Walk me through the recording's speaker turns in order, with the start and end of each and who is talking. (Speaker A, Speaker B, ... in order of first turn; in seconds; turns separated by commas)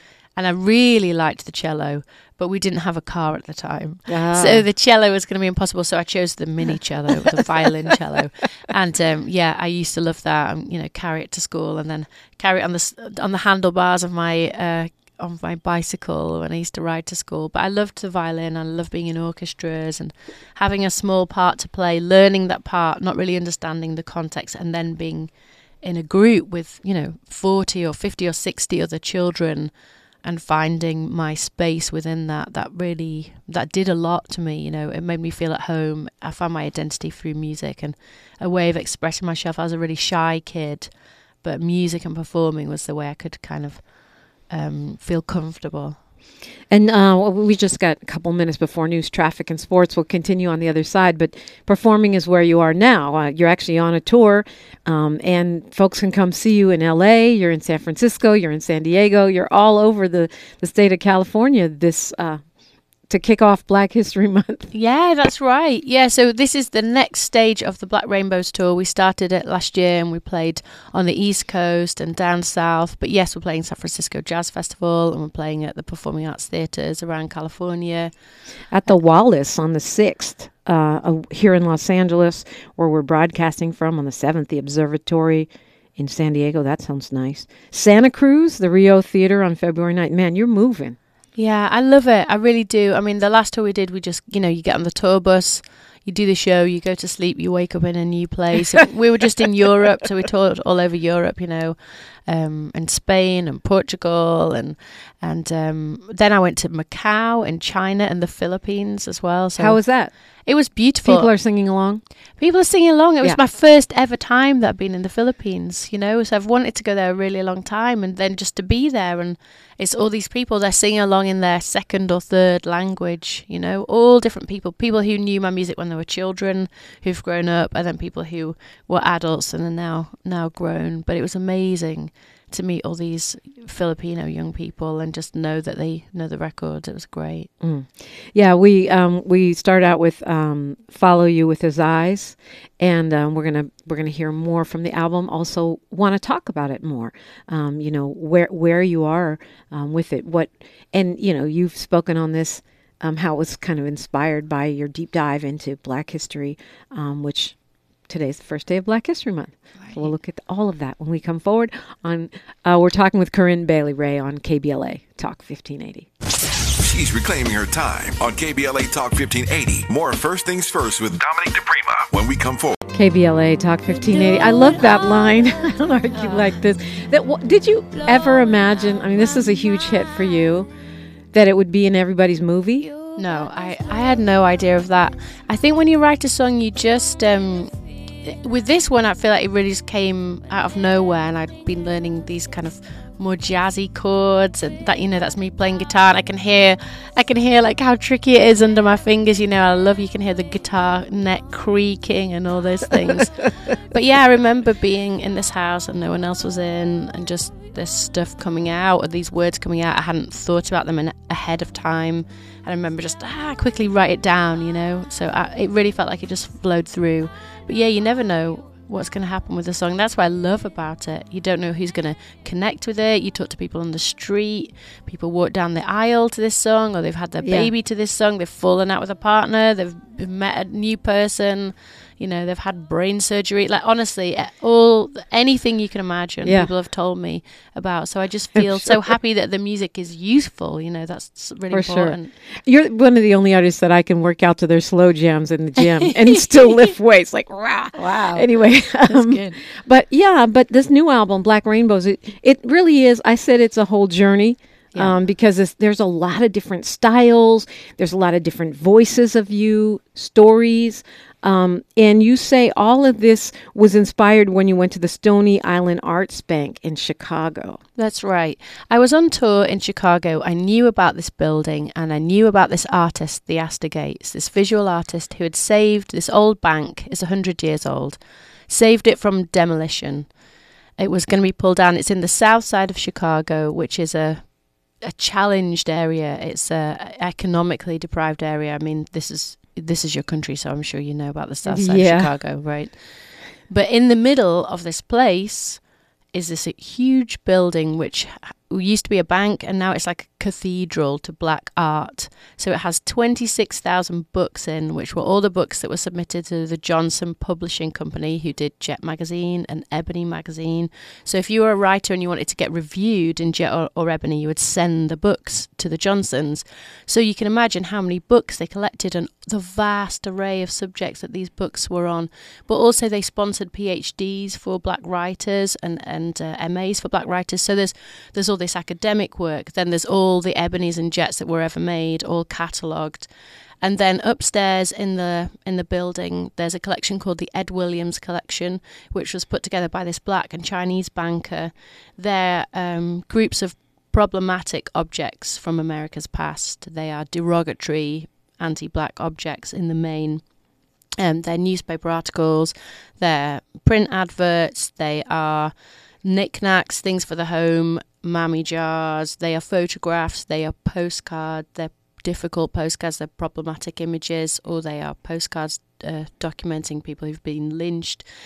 Speaker A: 0.4-29.7, Speaker B: 4.1-4.6, Speaker A: 30.2-40.9, Speaker A: 41.4-46.0, Speaker B: 46.7-62.4, Speaker B: 63.1-64.7, Speaker A: 64.7-78.1, Speaker B: 78.7-91.0, Speaker A: 91.4-101.8, Speaker A: 102.3-111.3, Speaker B: 109.6-110.1, Speaker B: 111.0-112.0, Speaker A: 112.4-137.5, Speaker B: 137.6-157.6, Speaker B: 158.1-166.1, Speaker A: 159.8-160.1, Speaker C: 166.8-172.8, Speaker B: 172.9-180.7, Speaker B: 181.3-182.9, Speaker A: 183.2-242.3, Speaker B: 227.4-227.7, Speaker B: 236.4-236.7, Speaker B: 238.6-239.1, Speaker B: 241.7-267.8, Speaker A: 245.8-246.8, Speaker A: 248.0-249.6, Speaker A: 268.0-280.4, Speaker A: 281.0-333.3, Speaker B: 291.6-292.3, Speaker A: 333.8-350.6, Speaker A: 351.2-368.3